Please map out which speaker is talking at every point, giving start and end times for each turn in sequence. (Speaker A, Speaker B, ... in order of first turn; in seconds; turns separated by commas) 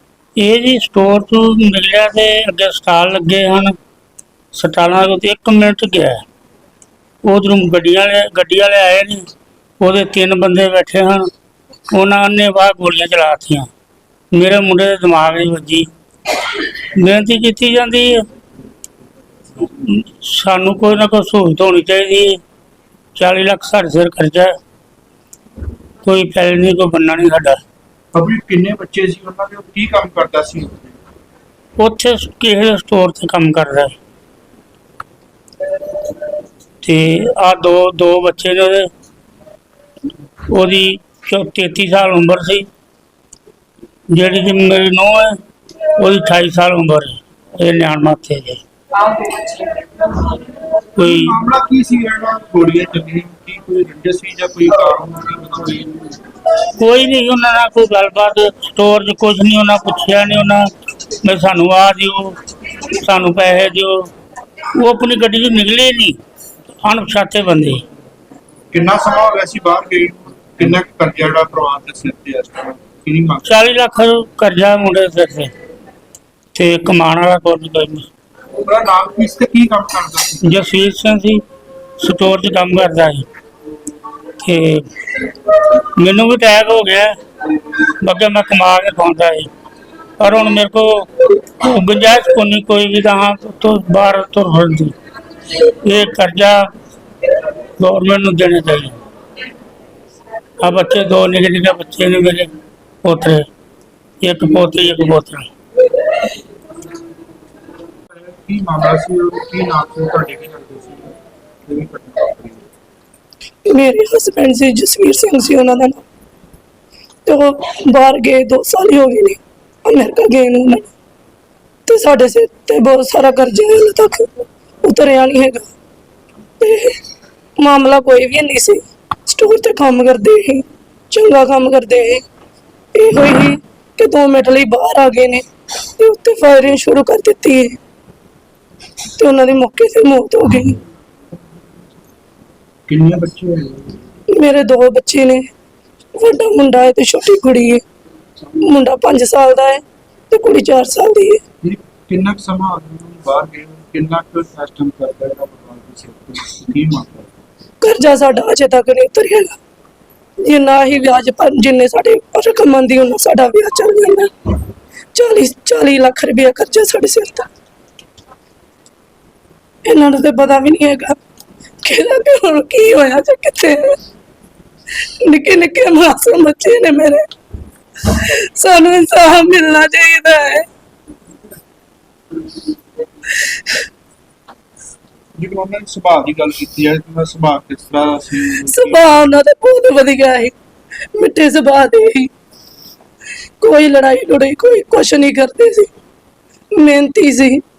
Speaker A: 0.3-3.7, Speaker A: 4.5-6.2, Speaker A: 7.2-9.2, Speaker A: 9.8-11.3, Speaker A: 11.9-13.7, Speaker A: 14.3-15.9, Speaker A: 16.6-18.2, Speaker A: 19.7-22.4, Speaker A: 23.1-24.5, Speaker A: 26.0-27.6, Speaker B: 28.1-31.0, Speaker A: 31.8-33.9, Speaker A: 36.8-38.9, Speaker A: 40.5-42.6, Speaker A: 44.1-45.4, Speaker A: 46.0-48.6, Speaker A: 51.0-51.4, Speaker B: 51.0-56.2, Speaker A: 56.8-60.7, Speaker A: 61.2-64.1, Speaker A: 64.8-66.2, Speaker A: 66.8-67.8, Speaker B: 68.7-73.5, Speaker A: 73.4-75.5, Speaker A: 76.5-78.1, Speaker B: 78.6-80.6, Speaker A: 80.4-81.4, Speaker A: 82.0-83.2, Speaker A: 84.4-84.8, Speaker A: 85.8-87.1, Speaker A: 88.0-89.5, Speaker A: 90.2-94.9, Speaker A: 95.6-96.7, Speaker A: 97.8-99.0, Speaker A: 100.6-102.5, Speaker A: 103.0-103.5, Speaker A: 104.2-105.5, Speaker B: 108.1-111.1, Speaker B: 111.7-112.7, Speaker C: 113.7-116.0, Speaker C: 117.2-120.9, Speaker C: 121.9-124.3, Speaker C: 124.8-125.7, Speaker C: 126.6-127.0, Speaker C: 127.6-132.2, Speaker C: 132.9-135.4, Speaker C: 136.0-137.8, Speaker C: 139.2-140.8, Speaker B: 142.9-144.0, Speaker C: 144.3-145.5, Speaker C: 146.1-147.8, Speaker C: 148.6-151.4, Speaker B: 151.6-157.3, Speaker C: 157.8-159.6, Speaker C: 160.4-164.3, Speaker C: 165.1-167.5, Speaker C: 169.8-171.2, Speaker C: 171.8-174.0, Speaker C: 175.2-177.2, Speaker C: 178.0-180.6, Speaker B: 185.4-189.2, Speaker C: 188.6-190.5, Speaker C: 191.1-192.3, Speaker C: 193.6-195.9, Speaker C: 196.8-197.6